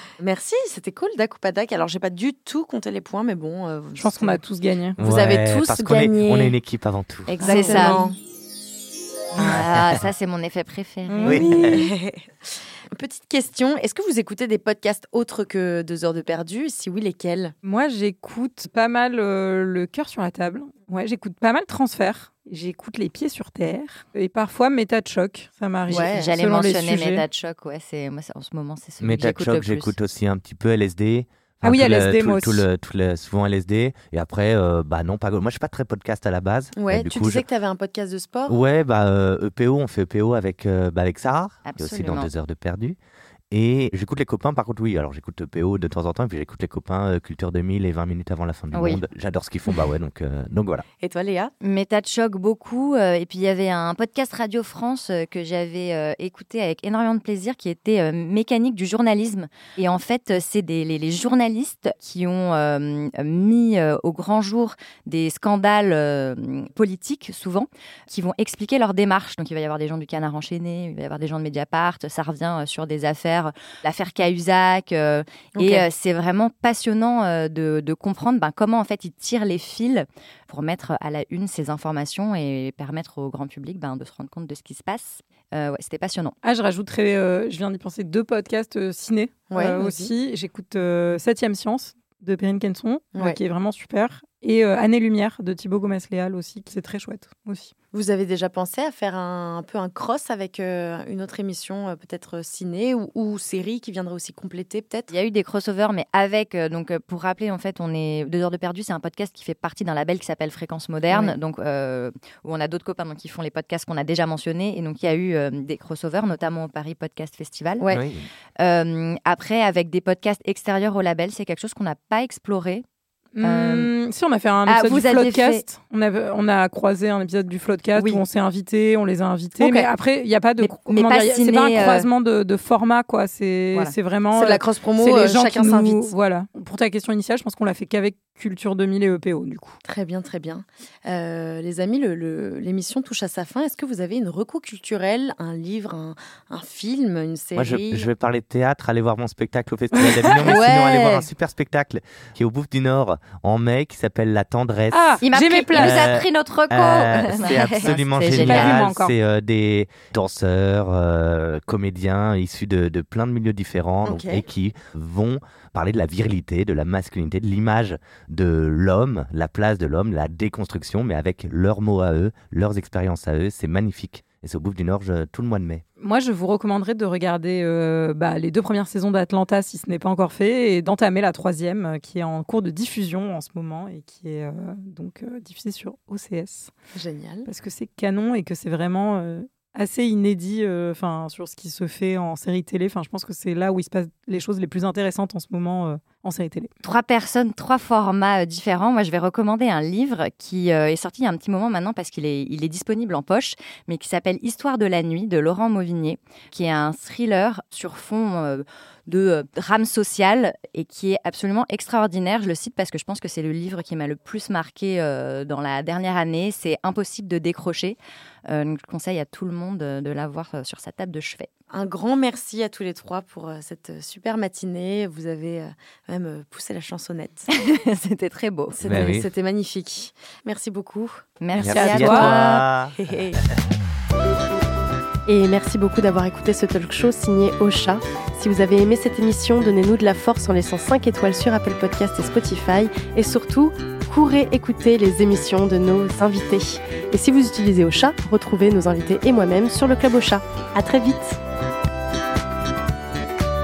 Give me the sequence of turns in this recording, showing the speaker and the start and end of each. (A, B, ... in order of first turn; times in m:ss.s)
0:00.2-0:04.4 A
0:04.0-0:05.0 B
0:05.0-0:06.5 A
0:05.0-0:07.4 C
0:07.3-0:08.0 D
0:07.4-0:08.1 A
0:07.4-0:08.1 B
0:09.3-0:11.6 D
0:09.4-0:10.0 C
0:11.1-0:11.9 B
0:11.2-0:11.8 C
0:11.5-0:12.3 A
0:12.9-0:17.5 A
0:17.6-0:27.2 B
0:25.9-0:26.3 A
0:25.9-0:29.9 D
0:29.0-0:37.4 C
0:31.6-0:32.6 B
0:36.8-0:38.6 A
0:38.5-0:43.0 C
0:41.6-0:42.3 D
0:43.5-0:50.8 C
0:48.7-0:49.0 D
0:51.0-0:51.5 A
0:51.6-1:26.3 D
1:15.5-1:15.8 A
1:26.4-1:37.7 B
1:29.5-1:30.1 A
1:37.9-1:45.1 A
1:45.1-1:57.8 D
1:51.1-1:51.4 A
1:57.9-1:58.3 C
1:58.6-2:02.8 D
2:03.4-2:19.8 B
2:03.4-2:03.9 D
2:04.6-2:05.6 D
2:08.0-2:08.2 A
2:09.6-2:09.9 A
2:10.6-2:12.1 D
2:14.3-2:16.1 A
2:19.8-2:28.1 A
2:27.6-2:55.8 C
2:30.0-2:30.6 B
2:30.4-2:31.3 A
2:34.9-2:36.1 B
2:35.2-2:38.8 D
2:38.3-2:39.1 B
2:44.0-2:44.4 A
2:56.0-3:06.7 B
3:06.9-3:07.5 A
3:07.4-3:16.7 B
3:16.8-3:41.5 D
3:41.7-3:47.5 A
3:47.5-3:48.8 D
3:48.8-3:51.2 A
3:48.8-3:49.3 C
3:51.4-3:52.6 D
3:51.6-3:52.9 C
3:51.6-3:52.3 B
3:52.9-3:53.4 A
3:55.3-4:11.4 E